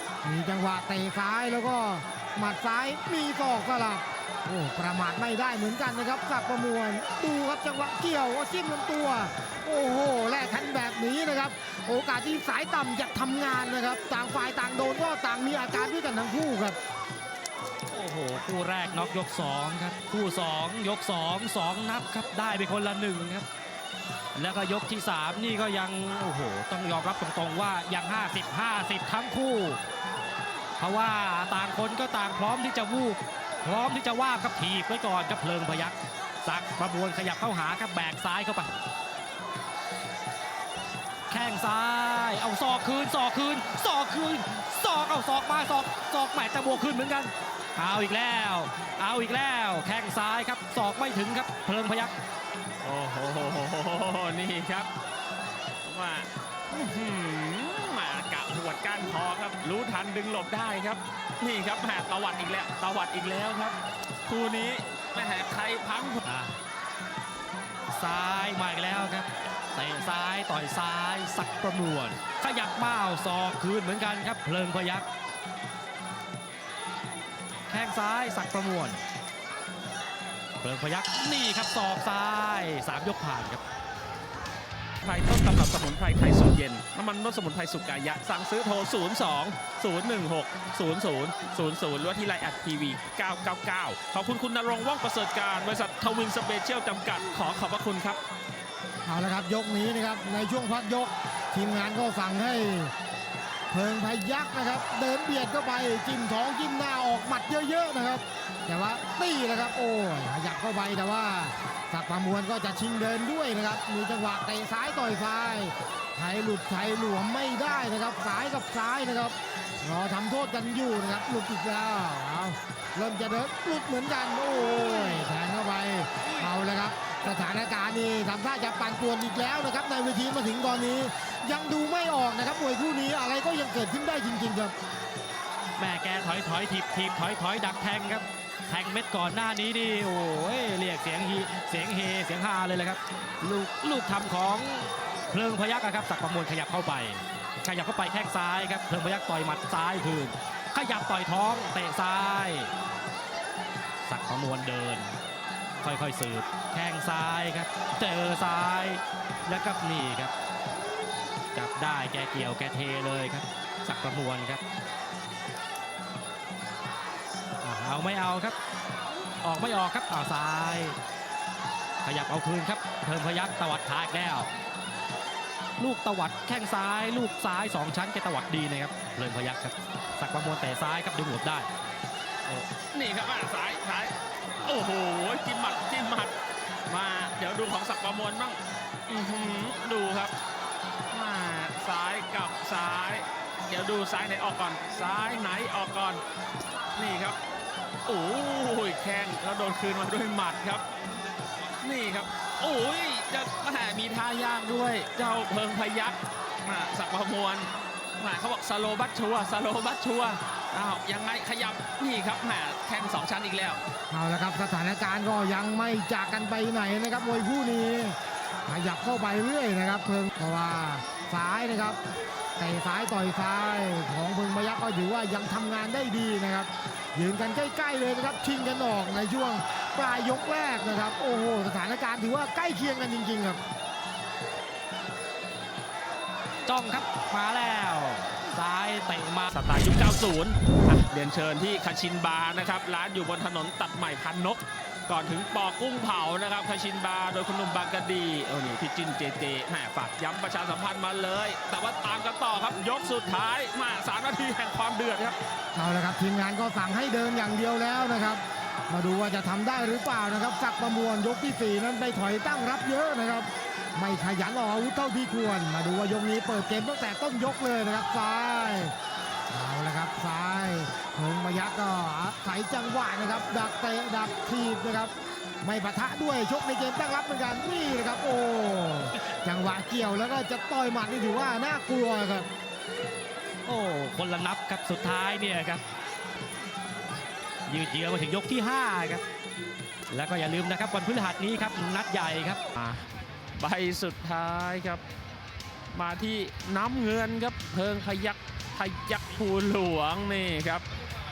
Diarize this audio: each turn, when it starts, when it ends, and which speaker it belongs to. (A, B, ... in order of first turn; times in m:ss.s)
0:00.2-0:16.8 A
0:17.9-0:23.4 B
0:24.3-0:29.8 B
0:30.8-0:38.7 B
0:41.3-0:52.1 B
0:52.8-0:54.9 C
0:55.8-1:06.2 C
1:06.2-1:06.5 B
1:07.9-1:15.0 B
1:17.7-1:19.0 B
1:20.6-1:23.6 B
1:25.0-1:38.2 C
1:39.0-1:42.9 A
1:43.7-2:14.7 A
2:15.8-2:32.7 B
2:34.0-2:35.1 B
2:35.8-2:40.3 B
2:41.5-2:44.6 B
2:47.6-2:48.5 B
2:49.4-2:51.0 B
2:52.0-2:54.5 B
2:55.8-3:01.7 B
3:02.5-3:06.3 C
3:06.9-3:10.3 C
3:11.1-3:16.2 C
3:17.0-3:17.4 C
3:18.0-3:20.8 C
3:21.8-3:33.8 C
3:34.1-3:42.0 A
3:42.6-3:53.6 A
3:56.6-3:59.5 B
3:59.5-4:15.4 C
4:15.7-4:28.9 A
4:29.5-4:42.5 A
4:43.6-4:45.8 B
4:47.7-4:49.2 B
4:50.1-4:52.6 B
4:52.7-4:53.0 C
4:53.6-4:55.0 C
4:55.9-5:00.8 C